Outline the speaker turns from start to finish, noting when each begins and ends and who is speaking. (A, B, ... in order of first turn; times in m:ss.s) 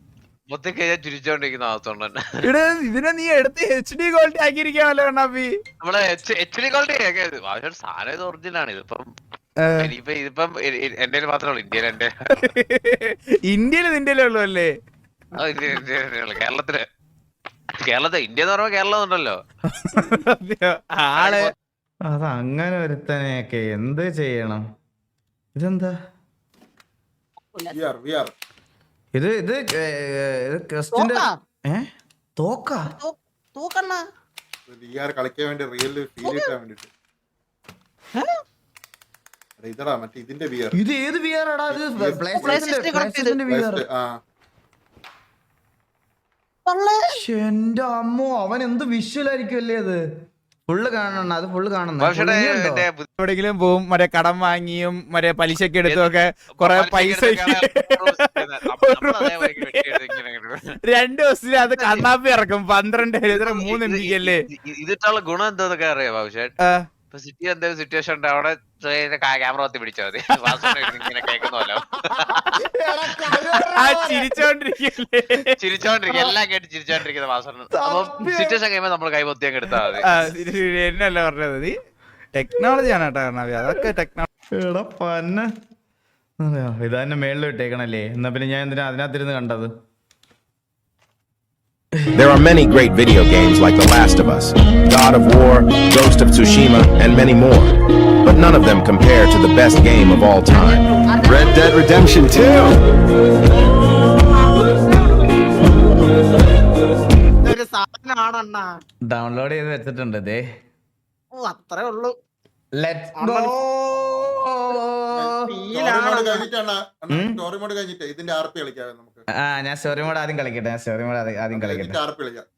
0:00.5-0:02.2 A
0:02.4-0:05.5 B
0:05.8-0:09.0 A
0:09.6-0:09.9 B
0:09.8-0:12.1 A
0:12.3-0:14.7 B
0:15.4-0:16.8 A
0:17.8-0:19.4 A
0:19.8-0:21.5 B
0:21.2-0:21.5 A
0:22.1-0:24.6 C
0:25.5-0:25.9 C
0:27.7-0:28.3 D
0:29.1-0:32.9 C
0:30.9-0:31.4 E
0:32.9-0:34.0 E
0:34.7-0:36.9 D
0:36.2-0:36.5 E
0:39.6-0:40.8 D
0:40.8-0:43.8 C
0:41.7-0:42.7 D
0:42.4-0:43.4 E
0:43.5-0:44.1 D
0:46.6-0:47.2 E
0:47.1-0:50.0 C
0:50.7-0:52.8 C
0:52.0-0:53.1 A
0:53.2-1:00.2 B
0:55.8-1:00.6 A
1:00.8-1:04.4 B
1:01.7-1:02.1 A
1:03.3-1:06.5 A
1:06.6-1:06.8 B
1:07.1-1:12.4 A
1:10.5-1:10.7 B
1:12.5-1:14.4 C
1:13.8-1:15.5 B
1:15.6-1:20.1 A
1:17.7-1:18.6 C
1:20.0-1:21.7 B
1:22.3-1:24.2 B
1:24.6-1:25.5 C
1:26.4-1:29.7 C
1:32.0-1:32.2 C
1:32.1-1:42.8 F
1:40.6-1:41.7 E
1:47.4-1:48.7 E
1:49.1-1:50.4 C
1:51.3-1:52.1 E
1:52.8-1:55.3 C
1:53.2-1:53.5 E
1:55.1-1:59.2 D
1:55.4-1:56.5 E
1:57.1-1:57.4 C
1:59.4-2:02.0 C
2:01.5-2:02.4 D